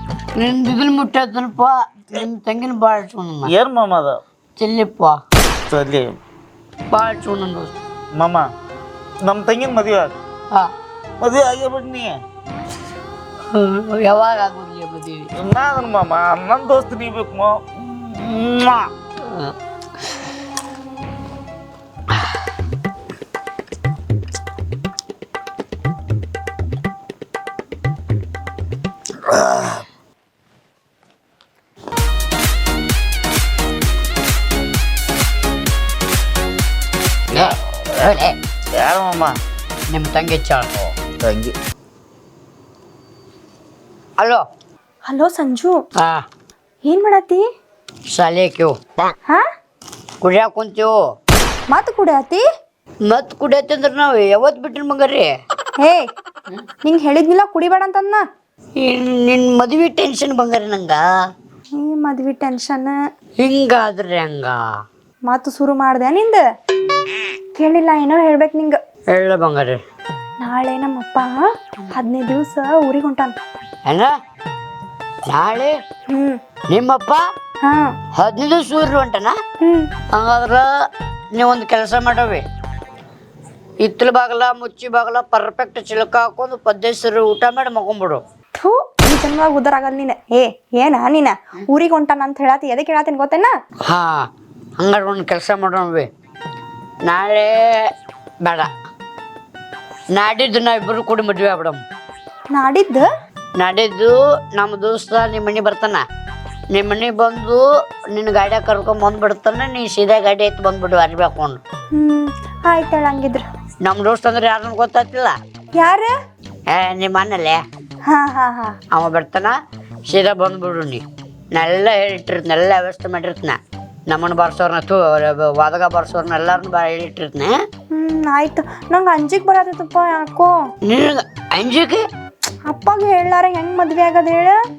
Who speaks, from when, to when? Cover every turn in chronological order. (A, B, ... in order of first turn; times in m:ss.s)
0:00.4-0:03.5 A
0:03.5-0:04.2 B
0:04.6-0:05.2 A
0:05.7-0:06.1 B
0:06.9-0:07.7 A
0:08.2-0:08.5 B
0:09.2-0:10.2 B
0:11.2-0:12.1 B
0:13.5-0:15.3 A
0:15.4-0:18.8 B
0:37.3-0:38.3 A
0:38.7-0:39.4 B
0:39.9-0:40.7 A
0:40.8-0:41.5 B
0:45.1-0:45.8 C
0:46.0-0:46.2 A
0:46.8-0:47.4 C
0:48.1-0:48.8 A
0:50.2-0:50.9 A
0:51.7-0:52.4 C
0:53.1-0:55.3 A
0:55.8-0:56.1 C
0:56.8-0:58.2 C
0:58.8-1:01.0 A
1:01.8-1:03.0 C
1:03.4-1:04.6 A
1:05.3-1:06.4 C
1:07.6-1:08.8 C
1:09.1-1:09.8 A
1:10.4-1:11.3 C
1:11.9-1:13.4 C
1:13.9-1:14.1 A
1:15.3-1:15.8 A
1:16.1-1:16.4 C
1:16.7-1:17.2 A
1:17.6-1:17.9 C
1:18.1-1:19.4 A
1:19.6-1:19.9 C
1:20.1-1:20.6 A
1:21.4-1:22.4 A
1:23.8-1:28.2 A
1:28.6-1:33.5 C
1:33.9-1:34.3 A
1:34.8-1:36.1 A
1:37.1-1:37.9 A
1:38.4-1:38.7 A
1:40.2-1:41.8 A
1:42.5-1:43.1 C
1:43.6-1:46.0 A
1:46.7-1:51.6 A
1:51.9-1:53.4 C
1:53.8-1:55.4 A
1:55.8-1:56.1 C
1:56.7-1:57.6 A
1:58.1-1:58.8 C
1:58.9-1:59.5 A
2:00.1-2:01.0 A
2:01.5-2:03.6 A
2:04.1-2:07.5 A
2:07.9-2:10.5 C
2:10.8-2:12.0 A
2:12.7-2:14.6 C